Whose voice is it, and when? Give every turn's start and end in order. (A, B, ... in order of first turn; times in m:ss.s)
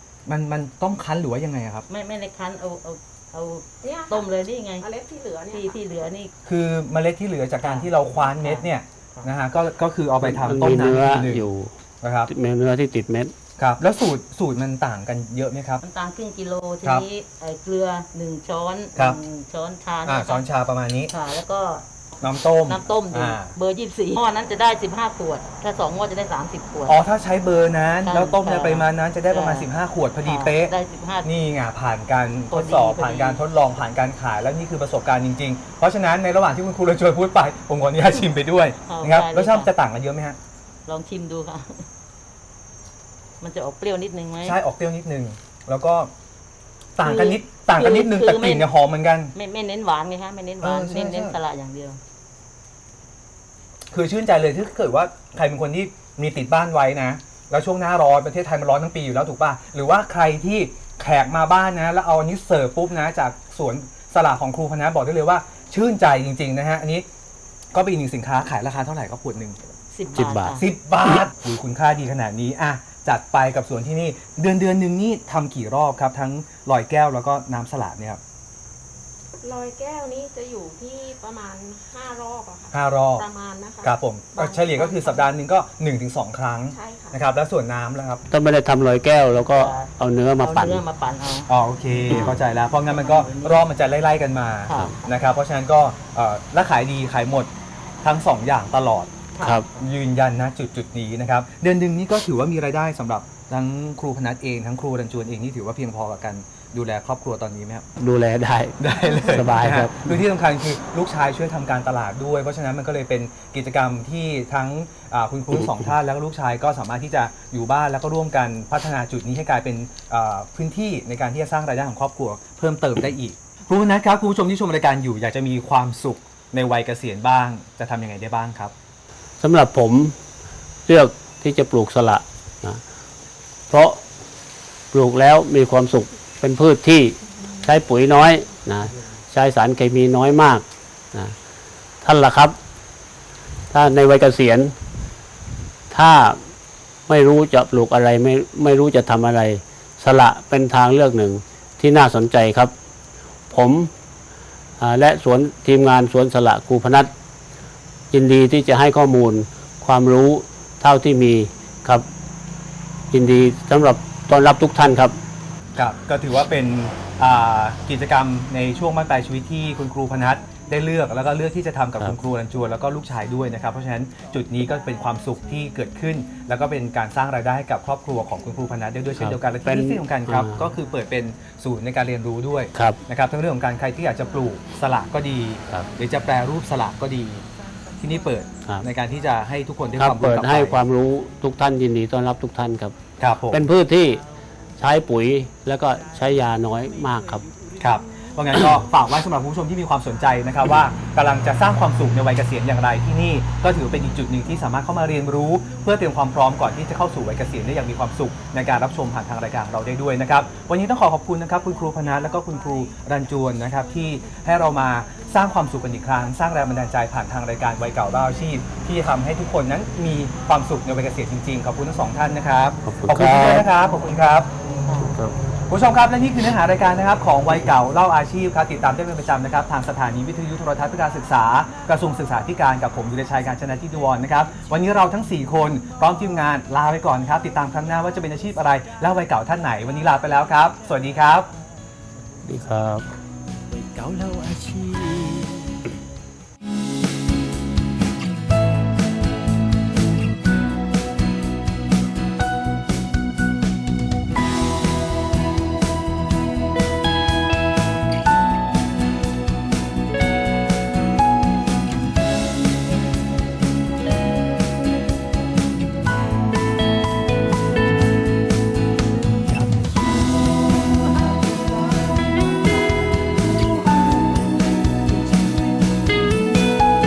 0:00.3-0:01.8 A
0:01.9-0:04.9 B
0:03.8-0:04.3 C
0:04.8-0:05.8 C
0:05.5-0:06.3 B
0:06.4-0:11.5 A
0:07.6-0:09.3 B
0:10.2-0:11.7 D
0:12.0-0:12.3 A
0:12.3-0:13.3 D
0:13.6-0:15.8 A
0:15.8-0:20.4 B
0:20.1-0:21.1 A
0:21.1-0:27.0 B
0:22.2-0:23.5 A
0:26.9-0:30.7 A
0:28.0-0:29.7 B
0:30.2-0:31.3 B
0:31.2-0:40.4 A
0:32.5-0:33.4 B
0:38.9-0:39.7 B
0:40.9-0:41.9 B
0:43.4-0:44.6 B
0:44.4-0:46.1 A
0:47.0-0:49.3 A
0:47.0-0:48.7 B
0:49.3-0:52.0 B
0:50.6-0:51.4 A
0:53.9-1:07.1 A
1:07.7-1:09.6 A
1:09.9-1:10.6 B
1:10.2-1:10.6 D
1:10.5-1:18.2 A
1:19.4-1:25.3 C
1:22.7-1:23.3 A
1:23.8-1:28.2 A
1:26.7-1:27.2 C
1:28.3-1:30.8 D
1:29.3-1:31.5 B
1:31.5-1:37.5 A
1:32.0-1:33.6 B
1:34.7-1:35.1 B
1:38.0-1:39.1 A
1:39.4-1:39.7 B
1:39.4-1:39.7 D
1:39.8-1:47.9 A
1:48.0-1:50.2 D
1:48.8-2:08.7 A
2:09.4-2:10.2 D
2:10.9-2:12.8 D
2:13.7-2:14.0 D
2:14.9-2:21.4 D
2:22.0-2:22.6 D
2:23.7-2:24.8 D
2:25.9-2:26.5 D
2:27.1-2:32.7 D
2:33.5-2:33.9 D
2:34.8-2:37.1 D
2:38.1-2:42.1 D
2:43.1-2:45.2 D
2:45.8-3:07.5 A
2:59.2-3:00.7 D
3:02.7-3:03.0 D
3:08.0-3:10.8 A
3:10.0-3:13.0 D
3:13.2-3:13.7 A
3:13.5-3:14.2 D
3:14.8-3:17.5 D
3:17.8-3:44.5 A
3:42.9-3:43.6 D
3:43.8-3:44.2 B
3:44.7-3:45.1 B
3:45.7-4:01.5 A
4:02.4-4:03.1 D
4:03.7-4:05.8 E
4:29.4-4:36.5 E